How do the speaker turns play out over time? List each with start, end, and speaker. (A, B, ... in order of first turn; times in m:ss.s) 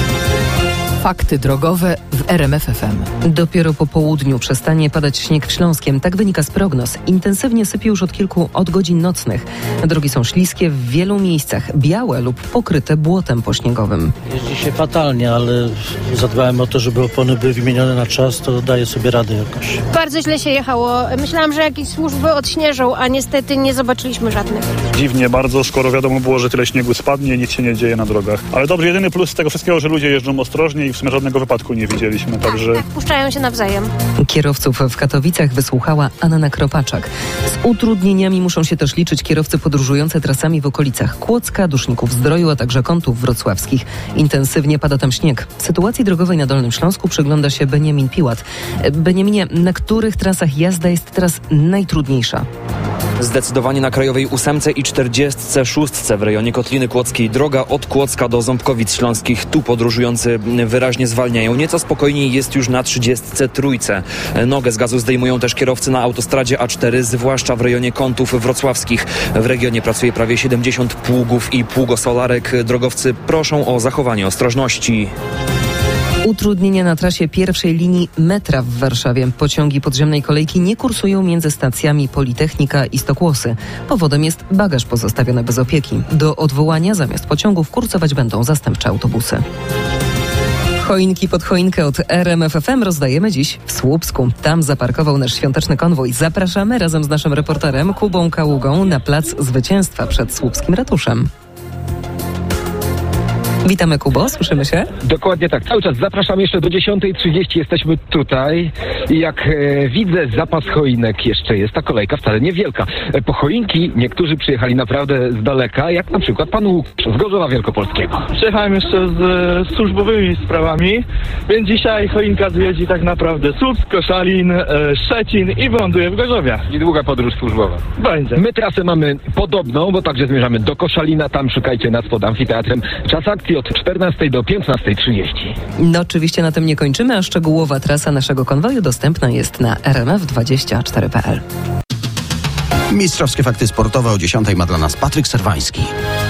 0:03.2-0:14.1 A
0:14.3-0:19.8 B
0:19.9-0:24.6 C
0:25.0-0:32.8 D
0:32.4-0:33.9 C
0:34.2-0:52.5 A
0:53.2-1:15.1 E
1:16.2-1:29.4 A
1:30.8-1:41.3 A
1:43.6-1:44.9 A
1:45.0-1:58.3 F
1:58.4-2:06.6 G
2:08.0-2:08.4 G
2:08.4-2:15.6 F
2:15.8-2:21.4 A
2:22.9-2:25.8 H